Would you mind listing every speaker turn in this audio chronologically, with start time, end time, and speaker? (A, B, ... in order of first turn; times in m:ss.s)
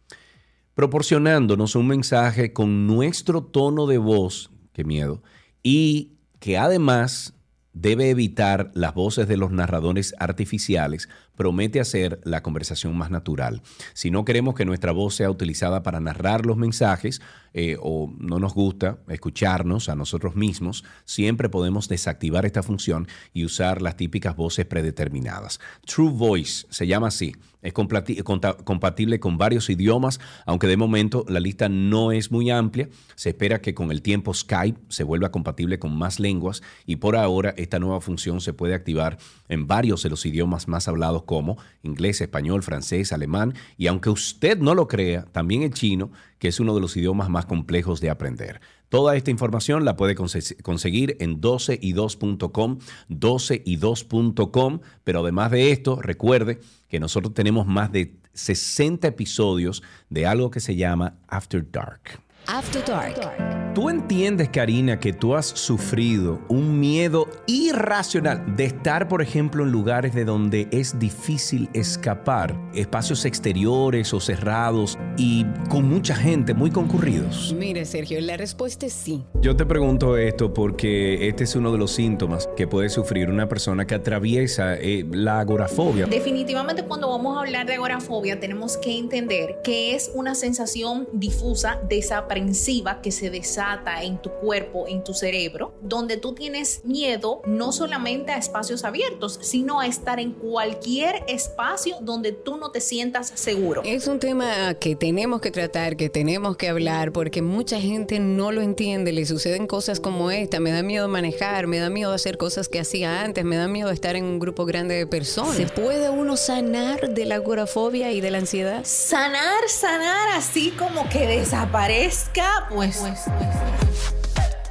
0:00.8-1:02.2 A
1:02.5-1:03.6 B
1:03.7-1:17.6 A
1:17.5-1:19.3 B
1:19.4-1:26.1 A
1:26.1-1:43.9 C
1:43.8-1:58.9 B
1:58.9-2:03.8 C